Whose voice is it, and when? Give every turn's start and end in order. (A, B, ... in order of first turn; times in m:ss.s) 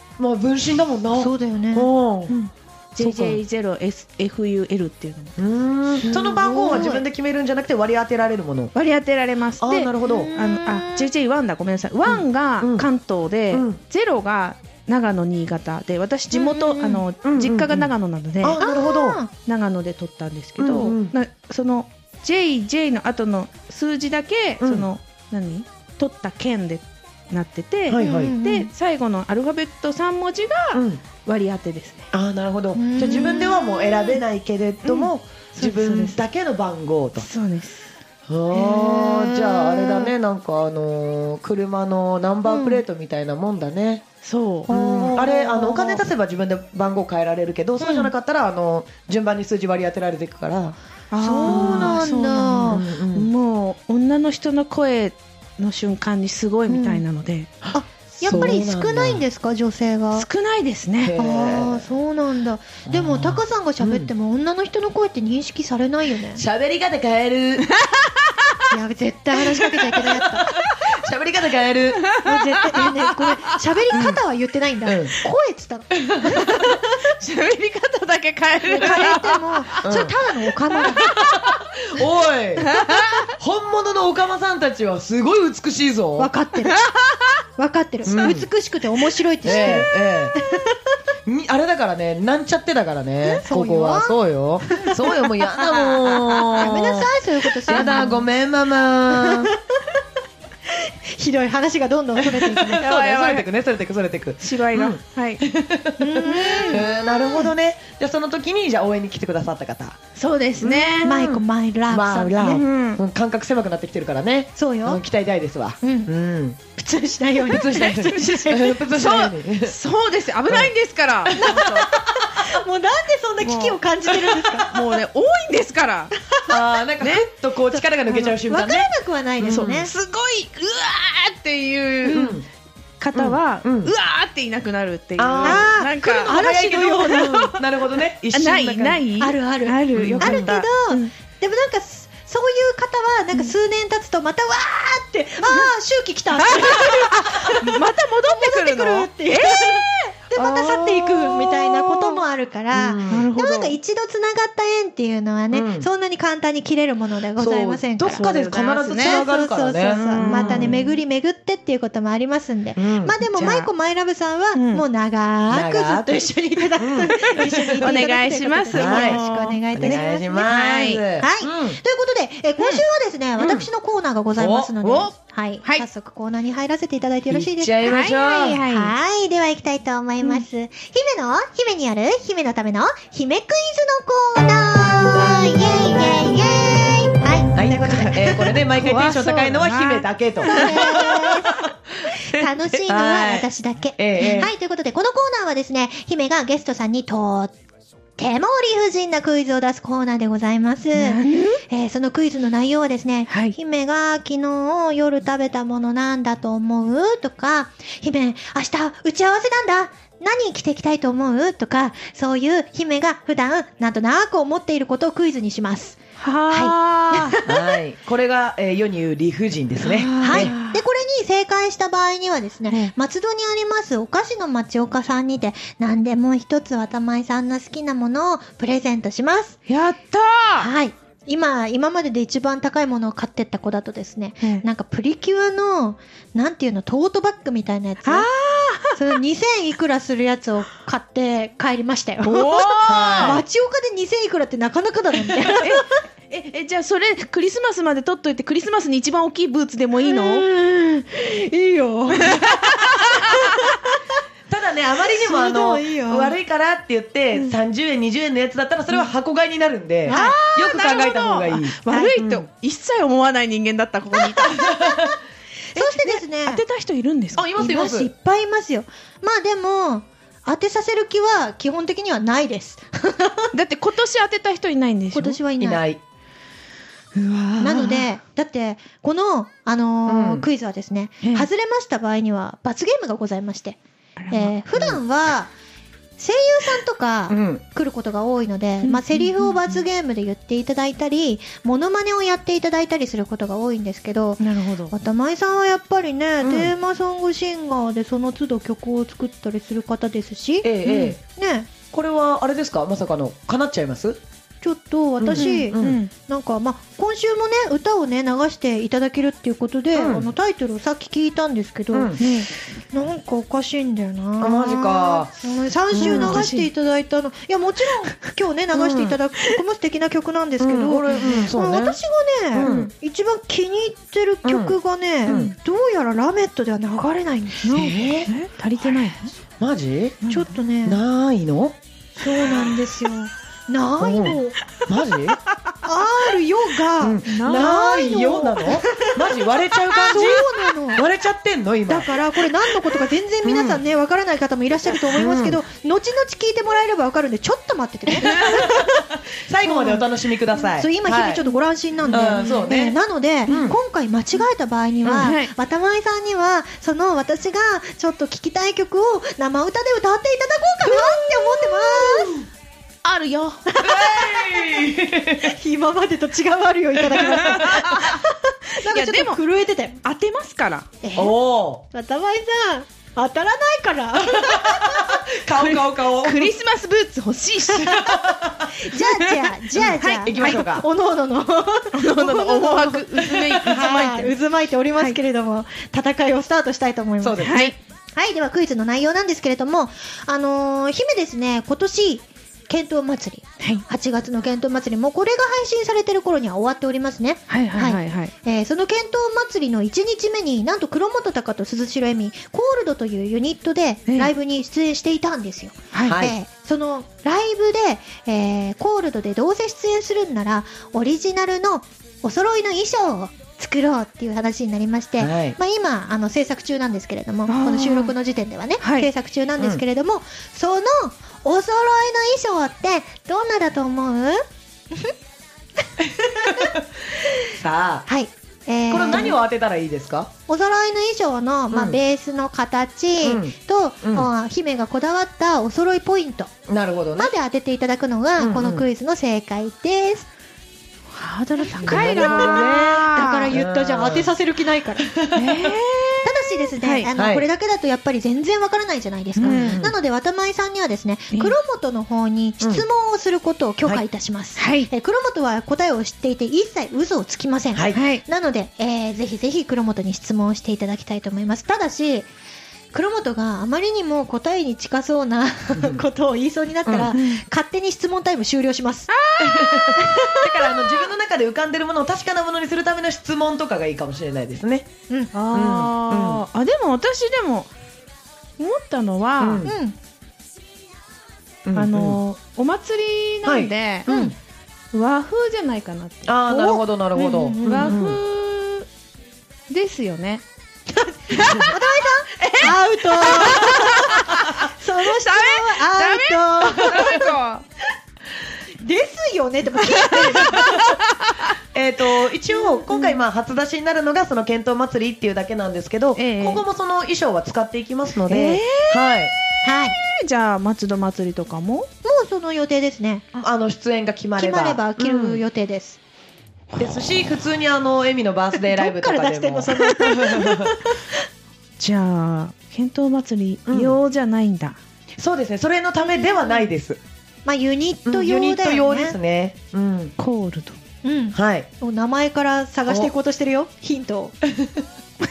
0:00.2-0:02.4 A
0:01.1-0:01.9 B
0:02.3-0:05.4 C
0:03.0-0:03.4 A
0:05.4-0:08.7 A
0:06.0-0:07.0 B
0:08.7-0:18.6 C
0:09.6-0:10.3 A
0:10.0-0:11.1 B
0:12.0-0:12.9 A
0:13.5-0:13.8 A
0:16.4-0:19.2 A
0:18.6-0:19.3 B
0:19.3-0:32.1 C
0:20.6-0:21.1 A
0:24.6-0:24.9 A
0:27.9-0:28.3 A
0:28.0-0:28.7 B
0:30.7-0:31.0 A
0:32.1-0:37.3 A
0:32.7-0:34.2 B
0:34.8-0:36.2 C
0:37.2-0:37.9 C
0:38.3-0:44.0 A
0:38.5-0:40.1 B
0:42.4-0:42.8 B
0:44.2-0:44.7 C
0:44.7-0:46.0 B
0:44.7-0:50.8 A
0:47.8-0:48.1 B
0:51.1-0:57.5 C
0:51.2-0:52.8 B
0:51.4-0:52.0 A
0:52.7-0:53.3 A
0:56.7-0:57.0 B
0:57.6-0:59.2 A
0:57.7-1:00.3 B
1:00.1-1:01.1 C
1:01.0-1:01.8 A
1:01.2-1:06.4 B
1:02.9-1:04.1 A
1:06.4-1:07.7 A
1:07.6-1:08.6 C
1:08.7-1:10.5 B
1:10.8-1:12.0 A
1:12.0-1:14.1 C
1:12.2-1:17.0 B
1:14.8-1:15.1 A
1:15.9-1:16.4 A
1:17.2-1:20.1 C
1:18.7-1:21.1 B
1:19.8-1:20.1 A
1:20.7-1:21.6 C
1:21.1-1:22.8 A
1:22.6-1:23.3 C
1:23.4-1:26.3 A
1:26.2-1:26.7 B
1:26.6-1:27.4 C
1:27.6-1:30.7 B
1:28.0-1:28.5 A
1:29.4-1:30.3 A
1:31.2-1:37.1 A
1:33.2-1:35.2 B
1:35.5-1:36.6 C
1:36.5-1:38.2 B
1:37.6-1:39.5 A
1:37.7-1:38.1 C
1:39.1-1:39.5 B
1:40.7-1:42.8 B
1:42.6-1:43.5 C
1:42.8-1:50.0 A
1:44.4-1:45.4 C
1:46.0-1:47.4 B
1:46.3-1:46.8 C
1:50.2-1:51.3 C
1:50.6-1:56.6 A
1:51.0-1:52.6 B
1:52.4-1:53.0 C
1:54.6-1:55.0 B
1:55.8-1:56.1 B
1:56.7-1:58.8 B
1:57.4-1:59.8 A
1:58.9-2:01.8 C
2:01.3-2:02.0 A
2:01.4-2:04.7 B
2:03.4-2:03.8 C
2:04.6-2:06.1 C
2:06.5-2:09.7 A
2:07.0-2:07.3 C
2:07.7-2:09.9 B
2:09.5-2:12.3 C
2:12.0-2:12.4 B
2:12.0-2:12.4 A
2:13.0-2:17.4 C
2:13.1-2:13.9 A
2:15.2-2:19.0 A
2:15.4-2:17.6 B
2:18.3-2:21.1 C
2:19.2-2:27.7 B
2:19.9-2:20.6 A
2:25.4-2:25.7 C
2:26.4-2:29.9 C
2:28.3-2:38.3 B
2:30.4-2:31.5 A
2:32.7-2:33.3 A
2:33.1-2:33.8 C
2:35.5-2:35.9 A
2:37.4-2:40.9 A
2:38.1-2:39.2 C
2:38.9-2:50.5 B
2:39.9-2:40.8 C
2:42.8-2:43.1 A
2:43.3-2:43.7 C
2:44.5-2:44.8 C
2:45.5-2:48.0 A
2:47.8-2:51.0 C
2:48.7-2:49.2 A
2:49.7-2:51.8 A
2:51.2-3:08.5 B
2:52.6-2:52.8 C
2:53.4-2:53.7 A
2:54.4-2:55.0 A
2:54.8-2:55.1 C
2:57.3-2:58.6 A
2:57.8-2:58.9 C
3:07.5-3:11.2 A
3:08.4-3:11.1 C
3:10.4-3:17.5 B
3:12.0-3:14.5 A
3:14.2-3:14.4 C
3:18.2-3:37.5 B
3:20.9-3:21.6 C
3:23.3-3:23.5 C
3:36.2-3:37.4 C
3:37.4-3:40.5 A
3:39.8-3:40.8 C
3:40.1-3:49.6 B
3:49.7-3:50.7 C
3:50.6-3:58.3 B
3:58.0-3:59.2 C
3:58.9-4:06.0 B
4:02.2-4:03.4 C
4:02.8-4:03.4 A
4:05.6-4:10.5 C
4:10.0-4:13.7 B
4:12.2-4:13.4 C
4:14.5-4:22.4 A
4:15.1-4:16.3 B
4:20.1-4:20.4 B
4:20.1-4:24.7 C
4:21.9-4:22.2 B
4:24.2-4:25.1 B
4:24.6-4:25.1 A
4:25.7-4:26.6 B
4:25.7-4:27.5 C
4:27.3-4:28.1 A
4:27.6-4:33.5 B
4:33.5-4:35.4 C
4:35.1-4:35.8 B
4:35.6-4:36.0 A
4:37.1-4:38.1 C
4:37.6-4:43.8 B
4:40.1-4:40.4 A
4:41.2-4:41.5 C
4:44.2-4:44.5 C
4:44.3-4:45.5 B
4:44.7-4:45.0 A
4:46.2-5:01.7 B
4:47.3-4:47.6 A
4:48.8-4:49.8 C
4:54.4-4:54.9 C
4:56.4-4:56.7 A
5:00.6-5:01.2 A
5:00.8-5:01.1 C
5:01.9-5:04.2 A
5:04.6-5:27.8 B
5:05.2-5:06.0 A
5:05.4-5:06.1 C
5:09.9-5:10.3 A
5:11.9-5:12.2 A
5:12.2-5:12.5 C
5:14.4-5:16.4 A
5:16.0-5:16.7 C
5:18.7-5:19.2 A
5:20.6-5:22.0 A
5:21.1-5:21.4 C
5:22.5-5:22.9 A
5:22.6-5:22.9 C
5:24.4-5:25.5 A
5:25.2-5:25.5 C
5:27.6-5:29.3 C
5:27.7-5:28.3 A
5:29.6-5:30.2 A
5:30.2-5:30.5 C
5:30.3-5:31.0 B
5:30.8-5:31.8 A
5:32.2-5:34.6 B
5:34.0-5:35.4 A
5:35.8-5:39.2 B
5:37.0-5:42.2 A
5:37.3-5:37.7 C
5:39.9-5:41.0 B
5:41.9-5:48.9 B
5:43.4-5:43.8 A
5:45.1-5:45.6 A
5:48.2-5:48.7 C
5:48.4-5:51.4 A
5:49.6-5:50.0 B
5:50.6-6:02.4 B
5:52.1-5:53.8 A
5:52.1-5:52.6 C
5:53.5-5:53.7 C
5:55.0-5:55.5 C
6:00.8-6:02.0 C
6:03.0-6:03.7 C
6:03.7-6:04.8 B
6:03.8-6:05.5 A
6:05.4-6:10.0 B
6:07.1-6:08.2 C
6:08.8-6:09.4 C
6:10.0-6:10.9 C
6:11.0-6:11.3 B
6:11.2-6:11.8 A
6:11.9-6:15.2 B
6:14.3-6:16.5 A
6:15.6-6:18.0 C
6:17.8-6:18.7 A
6:18.7-6:27.6 B
6:19.2-6:20.6 C
6:19.8-6:20.8 A
6:21.9-6:24.3 C
6:27.2-6:27.7 A
6:27.4-6:27.8 C
6:28.2-7:05.1 B
6:37.5-6:38.3 C
6:44.1-6:44.3 C
6:45.9-6:46.2 C
6:46.0-6:46.3 A
6:55.2-6:55.6 A
6:57.5-6:58.1 C
6:58.8-6:59.1 C
7:06.3-7:06.8 A
7:06.4-7:06.7 B
7:07.5-7:08.1 A
7:08.1-7:09.4 B
7:08.9-7:10.3 A
7:10.5-7:16.5 B
7:11.7-7:12.0 A
7:13.2-7:14.3 A
7:16.7-7:17.3 A
7:17.2-7:20.3 B
7:18.4-7:18.8 A
7:21.1-7:23.6 C
7:21.6-7:25.1 B
7:21.8-7:24.3 A
7:25.0-7:25.7 A
7:25.3-7:27.1 C
7:26.2-7:42.3 B
7:27.1-7:27.4 A
7:29.4-7:29.8 C
7:29.4-7:29.9 A
7:34.6-7:34.9 C
7:37.7-7:38.0 A
7:37.9-7:38.2 C
7:42.9-7:49.1 B
7:45.7-7:46.0 A
7:46.8-7:47.1 A
7:47.1-7:47.4 C
7:49.1-7:50.0 C
7:49.4-7:54.9 A
7:50.0-7:50.8 B
7:55.3-7:57.7 C
7:55.5-7:56.4 A
7:58.6-7:59.7 C
7:59.4-7:59.7 A
7:59.6-8:00.0 B
8:01.6-8:02.2 A
8:01.7-8:04.1 C
8:03.4-8:04.3 A
8:04.1-8:04.3 B
8:04.9-8:06.4 C
8:06.3-8:08.2 A
8:06.5-8:07.9 B
8:07.6-8:08.8 C
8:09.7-8:10.4 C
8:10.9-8:17.3 B
8:11.3-8:11.8 C
8:11.4-8:11.7 A
8:12.3-8:17.6 C
8:18.8-8:20.8 B
8:20.0-8:21.5 C
8:20.4-8:20.8 A
8:21.7-8:29.3 A
8:26.2-8:26.6 C
8:28.3-8:29.1 C
8:29.6-8:30.0 B
8:30.0-8:31.9 C
8:32.0-8:33.2 B
8:33.3-8:35.4 A
8:34.4-8:36.0 B
8:36.7-8:37.0 C
8:36.8-8:40.8 A
8:38.7-8:41.1 B
8:41.8-8:44.8 C
8:43.7-8:44.0 A
8:45.2-8:47.0 A
8:46.1-8:46.6 B
8:47.4-8:49.2 B
8:48.0-8:50.1 A
8:50.2-8:50.8 C
8:51.0-8:54.3 B
8:51.3-8:51.7 A
8:54.5-8:54.8 A